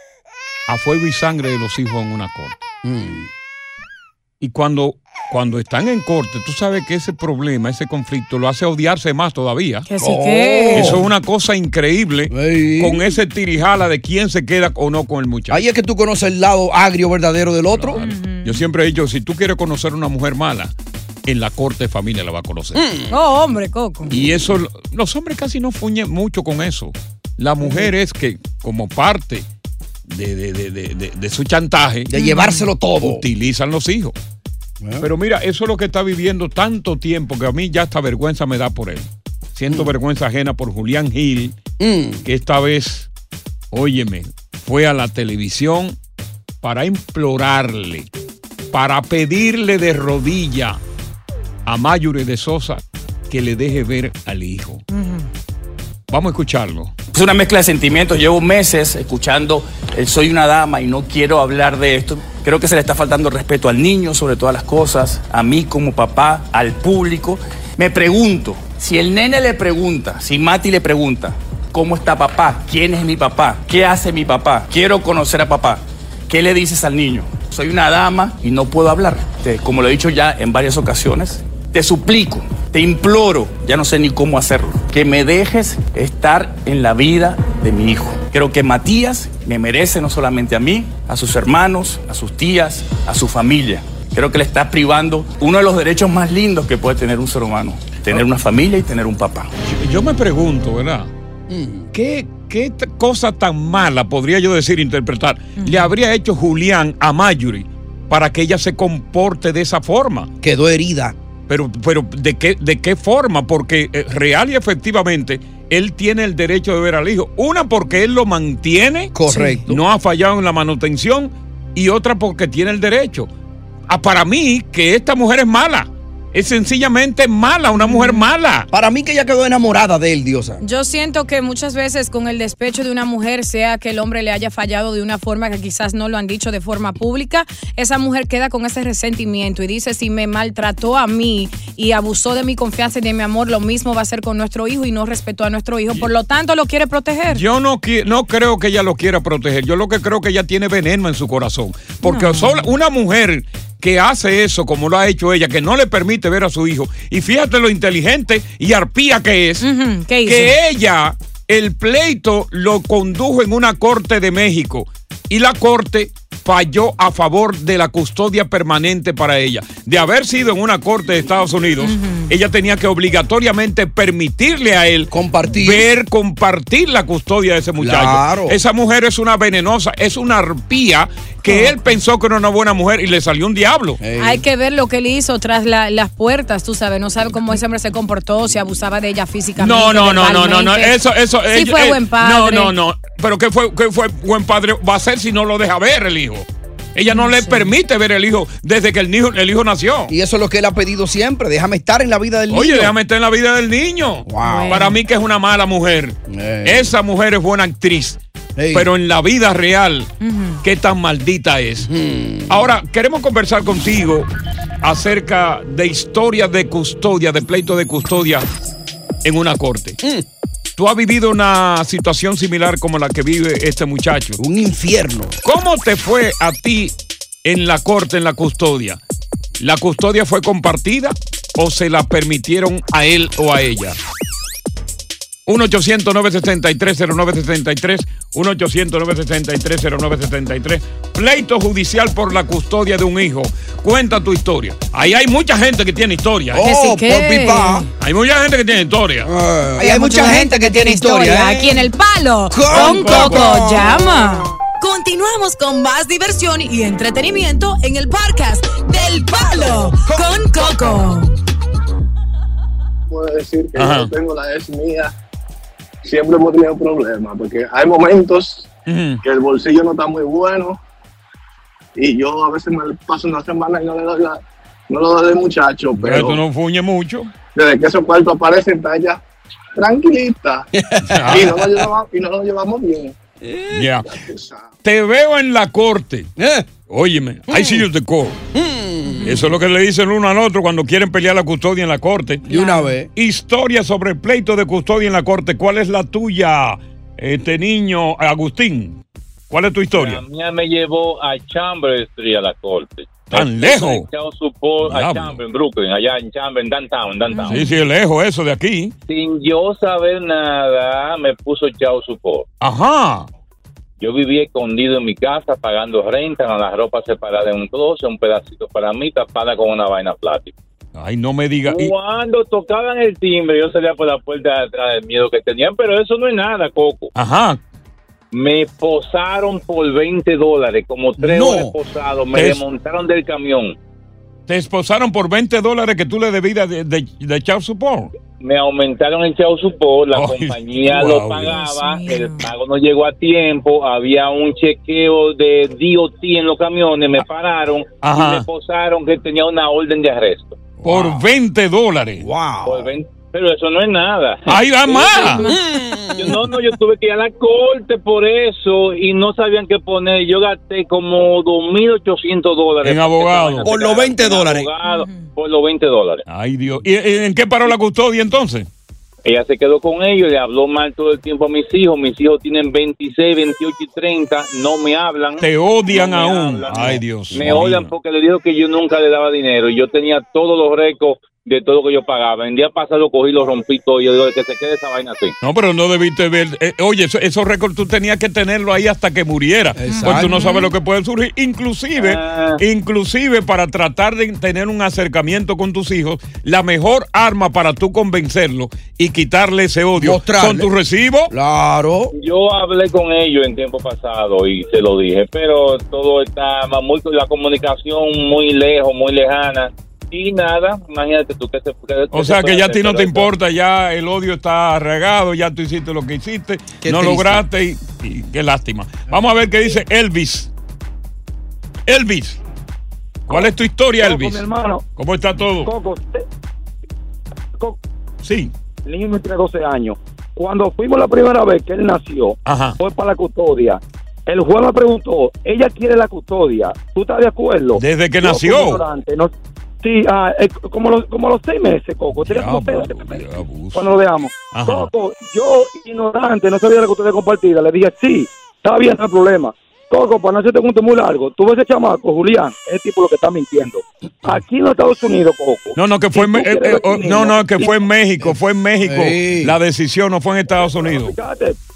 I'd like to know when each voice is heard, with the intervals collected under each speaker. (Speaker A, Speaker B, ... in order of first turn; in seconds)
Speaker A: 0.7-2.6, 4.4-9.8, 10.7-15.6, 17.7-20.7, 21.2-22.8, 24.1-29.5, 30.1-32.1, 33.0-34.1, 35.0-41.6, 42.2-43.1, 43.7-46.0, 46.6-48.1, 48.7-50.8, 51.6-54.8, 56.1-56.9, 99.7-101.1, 101.9-110.3, 111.5-119.1, 119.7-123.3, 123.9-128.7, 147.3-159.6, 160.2-184.0, 189.6-200.1, 202.5-208.2, 208.7-210.1, 210.6-211.9, 212.5-214.3, 214.8-218.5, 219.2-220.0, 220.8-224.4, 225.4-226.9, 227.4-229.0, 229.6-234.0, 235.4-246.7, 248.0-249.3, 252.7-253.7, 263.8-264.1, 268.9-269.2, 276.0-277.3, 281.1-281.6, 283.7-284.1, 284.8-286.3, 286.9-288.4, 289.2-292.4, 293.1-299.0, 299.5-300.2, 303.3-304.1, 304.8-305.4, 307.5-308.9, 312.6-313.3, 320.9-321.9, 327.1-327.6, 332.3-332.6, 334.5-338.1, 340.1-341.7, 348.0-348.4, 350.8-352.2, 354.5-355.5, 362.8-363.7, 366.3-368.7, 375.4-377.9, 385.4-401.3, 412.1-420.5, 421.9-422.4, 423.3-425.7, 428.2-428.5, 432.4-432.8, 437.7-438.8, 442.2-443.9, 444.5-444.9, 455.8-461.1
Speaker B: 2.8-3.3, 10.0-11.1, 12.3-13.1, 15.5-18.0, 22.7-23.2, 32.1-33.2, 34.8-35.1, 41.8-42.2, 101.5-101.9, 110.4-111.2, 119.1-119.8, 128.7-130.6, 175.1-175.9, 177.8-178.6, 184.0-184.4, 200.1-202.9, 204.2-204.9, 206.3-206.9, 208.6-208.9, 211.8-212.6, 224.4-225.4, 246.5-247.8, 249.2-251.9, 252.5-253.9, 259.3-261.0, 280.8-281.6, 283.4-283.7, 286.4-286.7, 287.5-287.9, 288.5-289.4, 292.4-293.1, 331.2-331.7, 350.8-351.2, 352.2-352.9, 355.4-356.4, 363.6-364.7, 389.8-390.3, 399.9-400.7, 401.3-402.1, 416.8-417.4, 458.2-459.5
Speaker C: 9.9-11.0, 17.9-18.6, 23.1-24.1, 32.1-32.7, 54.9-55.3, 105.6-105.9, 119.3-119.6, 127.8-128.2, 130.6-147.4, 152.0-152.7, 159.6-160.5, 171.8-172.3, 181.4-181.7, 184.2-190.9, 191.5-192.7, 197.1-197.7, 204.4-204.9, 210.2-210.6, 246.6-247.9, 249.8-254.5, 289.1-289.4, 292.5-292.9, 307.3-307.6, 341.6-342.5, 355.2-355.5, 364.8-365.3, 389.9-390.7
Speaker D: 57.1-99.5
Speaker E: 254.8-261.3
Speaker F: 263.1-265.1, 266.0-268.7, 269.2-270.8, 271.9-276.4, 277.5-279.2, 279.8-280.7, 281.2-283.2, 284.1-284.7
Speaker G: 299.9-307.6, 309.1-312.4, 314.0-320.5, 321.6-327.1, 328.3-333.8, 338.4-350.6, 352.6-355.3, 356.2-366.2, 369.2-385.3, 391.9-392.6, 402.1-413.3
Speaker H: 424.0-424.8, 425.6-426.2, 428.9-457.7, 460.5-461.6